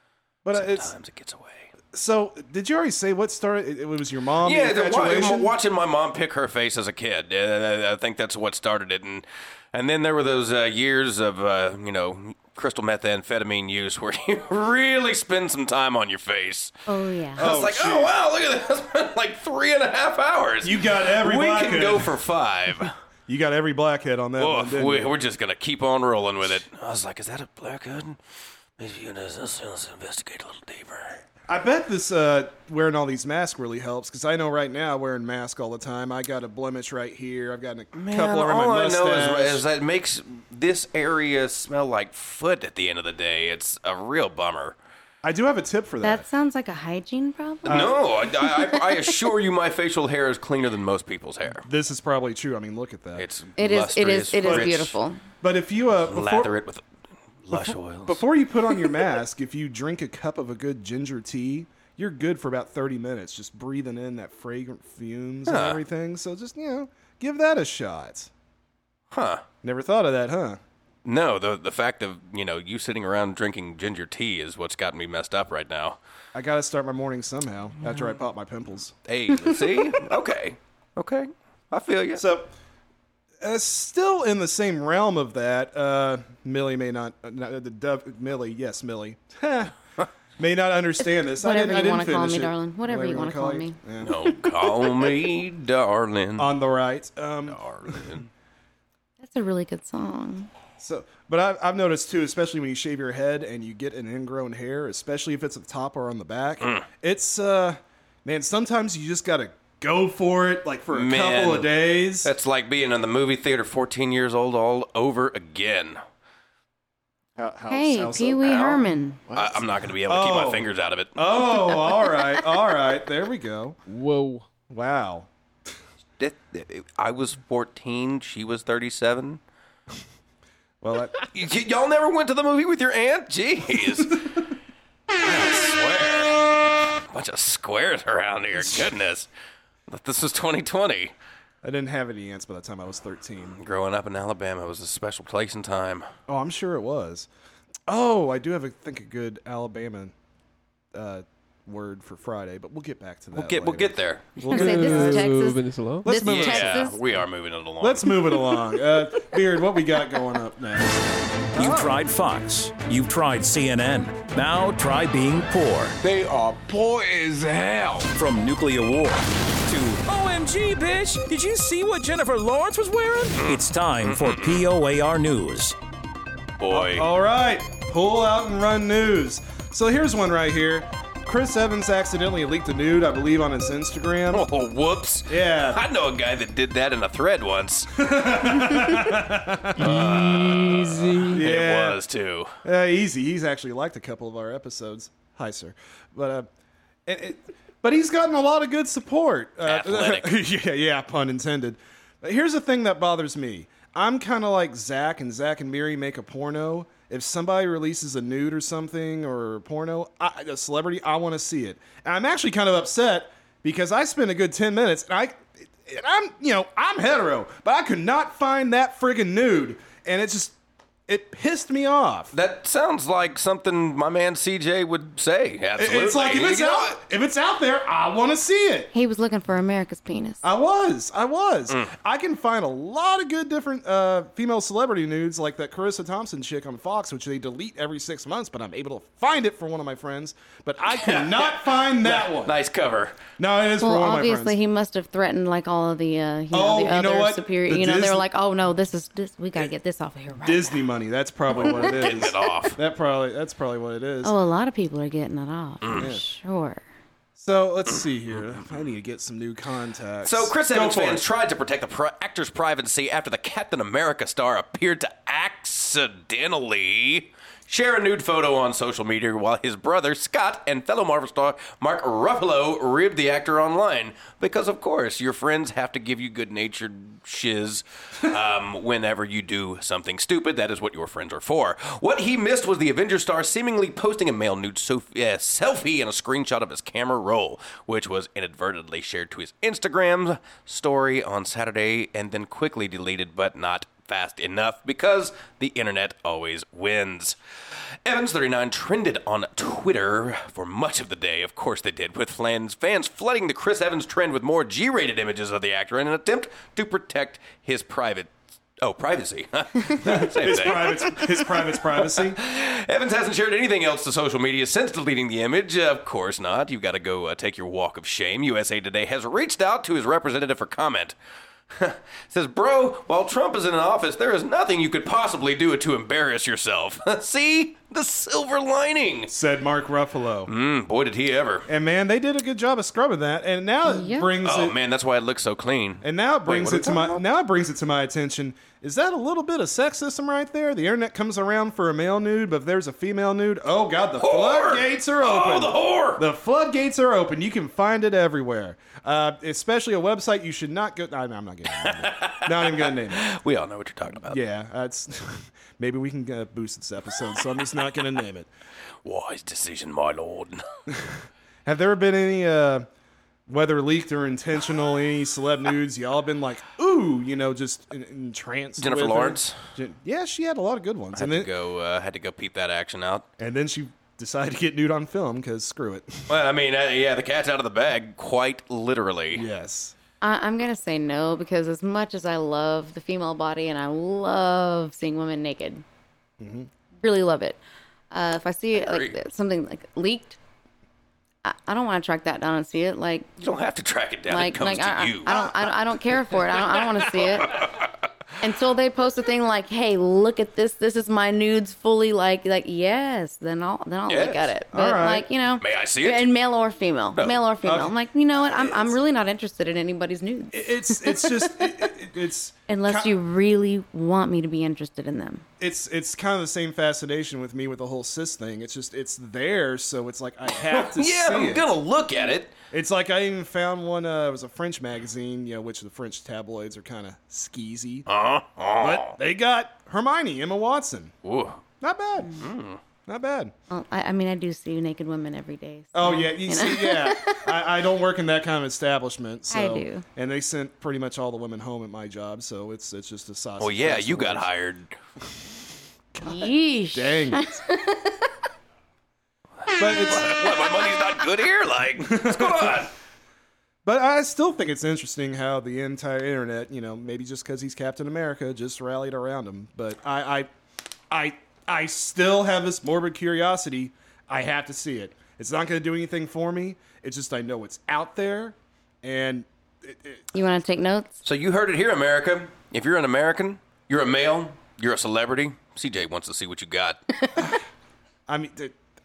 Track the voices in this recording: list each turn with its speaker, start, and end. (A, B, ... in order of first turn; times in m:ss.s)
0:00.4-0:00.9 A
0:00.5-0:01.7 B
0:01.9-0:05.5 A
0:04.4-0:16.7 B
0:16.9-0:17.5 C
0:17.4-0:22.9 B
0:17.4-0:18.1 A
0:20.6-0:22.2 A
0:23.3-0:25.1 A
0:24.4-0:28.2 B
0:28.8-0:31.2 B
0:31.5-0:39.6 A
0:38.0-0:44.8 B
0:45.2-0:46.3 A
0:46.0-0:49.0 C
0:47.7-0:48.0 A
0:47.7-0:51.6 B
0:51.6-0:53.3 A
0:53.2-0:55.0 B
0:53.6-0:55.2 C
0:54.4-0:54.8 A
0:55.4-0:56.5 A
0:56.0-0:56.8 B
0:57.4-0:58.2 B
0:57.5-1:08.3 A
1:05.5-1:05.8 B
1:09.1-1:09.4 B
1:09.6-1:10.6 A
1:11.0-1:16.0 B
1:16.3-1:18.9 A
1:19.1-1:22.2 B
1:22.2-1:22.5 A
1:23.4-1:29.8 A
1:30.4-1:34.2 A
1:31.0-1:33.8 C
1:34.0-1:36.5 B
1:34.5-1:35.1 C
1:36.4-1:38.1 A
1:37.5-1:38.3 B
1:39.2-1:40.5 C
1:40.8-1:52.3 A
1:46.6-1:46.9 B
1:50.9-1:56.0 B
1:57.4-1:58.8 A
1:57.7-1:59.2 C
1:59.3-1:59.6 D
1:59.3-2:01.2 B
2:00.0-2:03.8 A
2:03.9-2:04.5 D
2:04.7-2:05.3 A
2:06.2-2:09.4 B
2:10.8-2:11.2 A
2:11.2-2:14.2 B
2:15.2-2:19.3 B
2:19.9-2:21.1 B
2:21.6-2:23.6 A
2:23.5-2:26.1 B
2:26.3-2:27.3 A
2:27.9-2:30.1 A
2:30.9-2:35.3 A
2:33.3-2:34.5 B
2:34.4-2:37.0 C
2:34.5-2:36.1 D
2:36.0-2:36.9 A
2:36.2-2:38.3 B
2:37.8-2:42.0 A
2:41.6-2:46.0 E
2:46.0-2:48.1 F
2:48.2-2:55.8 E
2:53.4-2:54.6 B
2:56.6-2:57.1 B
2:56.7-3:04.5 A
3:04.3-3:07.9 B
3:05.3-3:05.8 A
3:07.9-3:10.2 A
3:09.7-3:12.5 B
3:09.8-3:11.4 D
3:11.3-3:12.0 A
3:12.6-3:16.5 A
3:17.1-3:40.6 A
3:19.6-3:20.4 B
3:41.1-3:42.3 A
3:42.3-3:47.0 B
3:45.8-3:48.9 A
3:48.9-3:50.4 C
3:50.4-4:02.6 A
4:00.9-4:03.2 B
4:03.4-4:04.6 A
4:03.8-4:10.8 C
4:06.5-4:08.3 A
4:10.4-4:14.4 A
4:11.7-4:12.8 B
4:14.2-4:16.8 C
4:15.8-4:16.1 B
4:16.0-4:16.2 A
4:17.4-4:21.2 A
4:20.2-4:57.4 B
4:58.0-5:21.2 B
5:10.0-5:12.4 A
5:21.7-5:29.3 B
5:29.3-5:30.5 A
5:30.5-5:31.7 B
5:31.7-5:34.8 A
5:33.8-5:34.3 C
5:34.4-5:37.2 B
5:36.0-5:53.3 A
5:44.2-5:46.2 B
5:51.8-5:54.4 B
5:54.2-5:58.5 A
5:59.0-6:00.6 B
6:00.9-6:02.9 A
6:03.5-6:11.5 A
6:08.8-6:09.6 B
6:11.2-6:13.3 B
6:13.4-6:16.4 A
6:16.3-6:19.4 B
6:19.3-6:20.0 A
6:20.2-6:25.8 C
6:26.4-6:26.7 A
6:27.0-6:27.6 C
6:28.1-6:30.4 C
6:28.8-6:29.2 B
6:31.4-6:33.4 C
6:33.4-6:35.7 B
6:34.3-6:37.7 C
6:36.4-6:37.9 B
6:38.4-6:51.9 C
6:44.1-6:44.5 B
6:44.7-6:45.3 A
6:45.6-6:46.3 B
6:47.6-6:47.9 A
6:48.6-6:48.9 A
6:50.5-6:53.1 A
6:52.7-6:55.4 C
6:55.6-7:01.7 A
7:00.7-7:02.5 B
7:02.7-7:08.1 A
7:08.1-7:09.2 B
7:08.8-7:11.1 A
7:11.2-7:11.6 B
7:11.8-7:12.5 A
7:12.4-7:12.8 B
7:13.1-7:13.5 A
7:13.7-7:17.5 C
7:15.9-7:24.5 A
7:19.5-7:20.0 C
7:23.6-7:24.9 B
7:26.2-7:27.6 A
7:26.2-7:28.3 C
7:29.6-7:32.9 B
7:29.8-7:30.4 A
7:32.0-7:32.9 A
7:33.8-7:40.5 A
7:41.1-7:50.3 A
7:50.3-7:51.2 C
7:51.2-7:57.0 B
7:57.2-7:57.5 C
7:58.3-7:58.8 A